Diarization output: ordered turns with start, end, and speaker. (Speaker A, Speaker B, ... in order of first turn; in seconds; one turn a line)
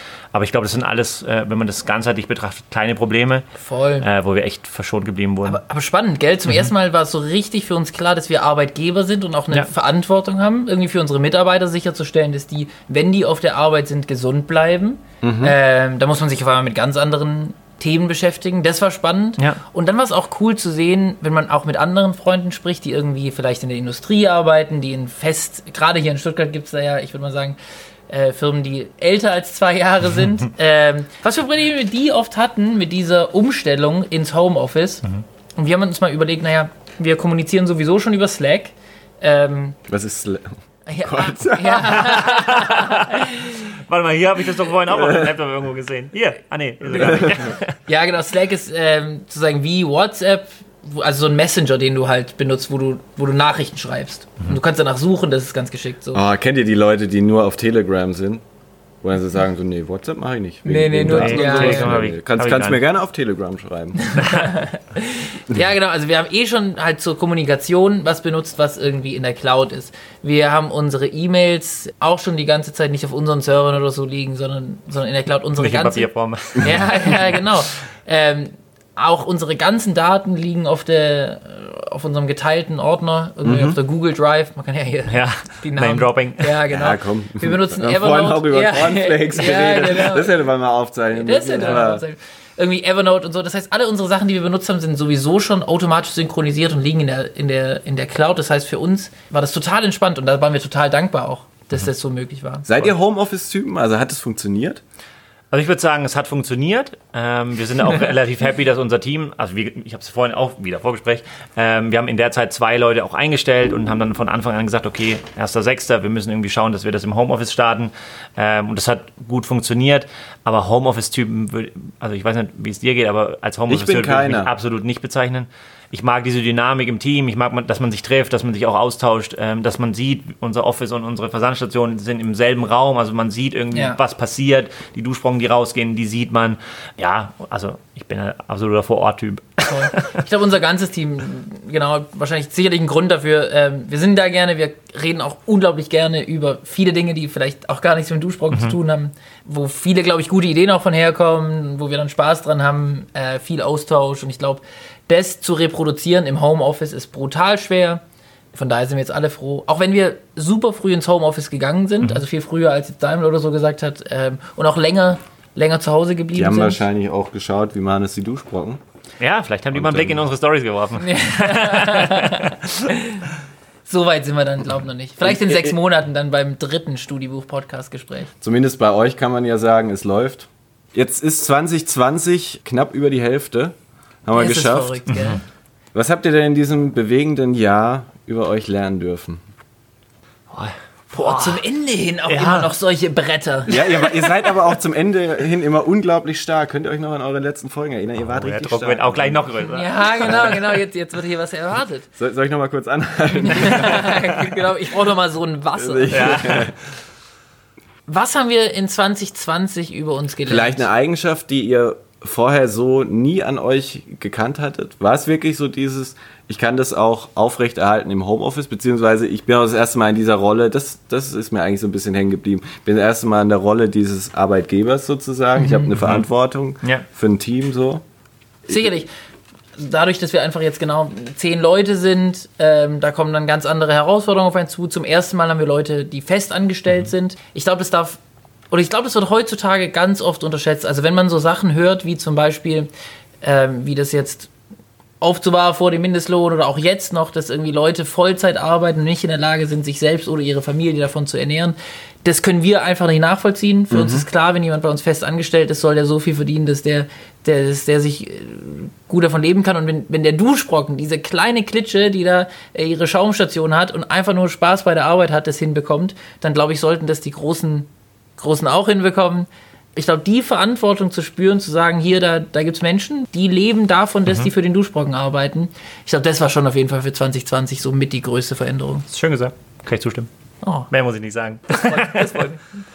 Speaker A: 0.3-3.5
Speaker B: 3.6-4.0
Speaker A: 4.0-5.6
Speaker B: 5.4-27.6
Speaker C: 15.2-15.6
Speaker B: 28.1-35.0
Speaker B: 35.5-39.8
Speaker C: 39.9-41.9
Speaker B: 40.9-43.6
Speaker A: 41.8-47.7
Speaker C: 44.9-45.3
Speaker B: 47.0-47.3
Speaker C: 47.0-47.4
Speaker B: 47.9-56.2
Speaker C: 56.1-58.4
Speaker C: 59.0-64.0
Speaker B: 60.6-61.9
Speaker A: 61.1-62.8
Speaker B: 64.0-76.1
Speaker A: 75.6-77.4
Speaker B: 76.6-90.3
Speaker C: 83.4-83.8
Speaker A: 85.1-86.6
Speaker C: 86.7-92.0
Speaker B: 91.1-102.7
Speaker C: 102.7-104.8
Speaker A: 105.5-140.2
Speaker C: 123.7-124.5
Speaker B: 133.7-134.0
Speaker B: 139.6-158.0
Speaker B: 158.5-166.8
Speaker C: 166.3-168.8
Speaker A: 169.2-172.7
Speaker C: 169.7-170.2
Speaker B: 171.0-173.2
Speaker B: 173.8-178.3
Speaker C: 175.2-175.7
Speaker C: 178.4-185.0
Speaker B: 184.3-185.4
Speaker A: 185.1-185.4
Speaker C: 185.9-189.4
Speaker A: 190.5-191.6
Speaker B: 191.1-194.5
Speaker A: 192.3-192.7
Speaker C: 193.7-199.5
Speaker A: 198.2-200.6
Speaker B: 199.6-202.1
Speaker C: 202.2-204.2
Speaker B: 203.3-206.7
Speaker C: 205.8-206.7
Speaker A: 206.1-206.7
Speaker B: 208.1-210.8
Speaker C: 210.4-228.0
Speaker B: 225.5-225.9
Speaker A: 226.0-226.2
Speaker B: 228.7-229.1
Speaker B: 229.8-238.2
Speaker B: 238.7-242.9
Speaker B: 243.4-244.5
Speaker B: 245.2-279.0
Speaker C: 253.9-254.3
Speaker A: 279.1-280.3
Speaker B: 280.6-280.9
Speaker A: 280.9-282.5
Speaker B: 281.7-282.7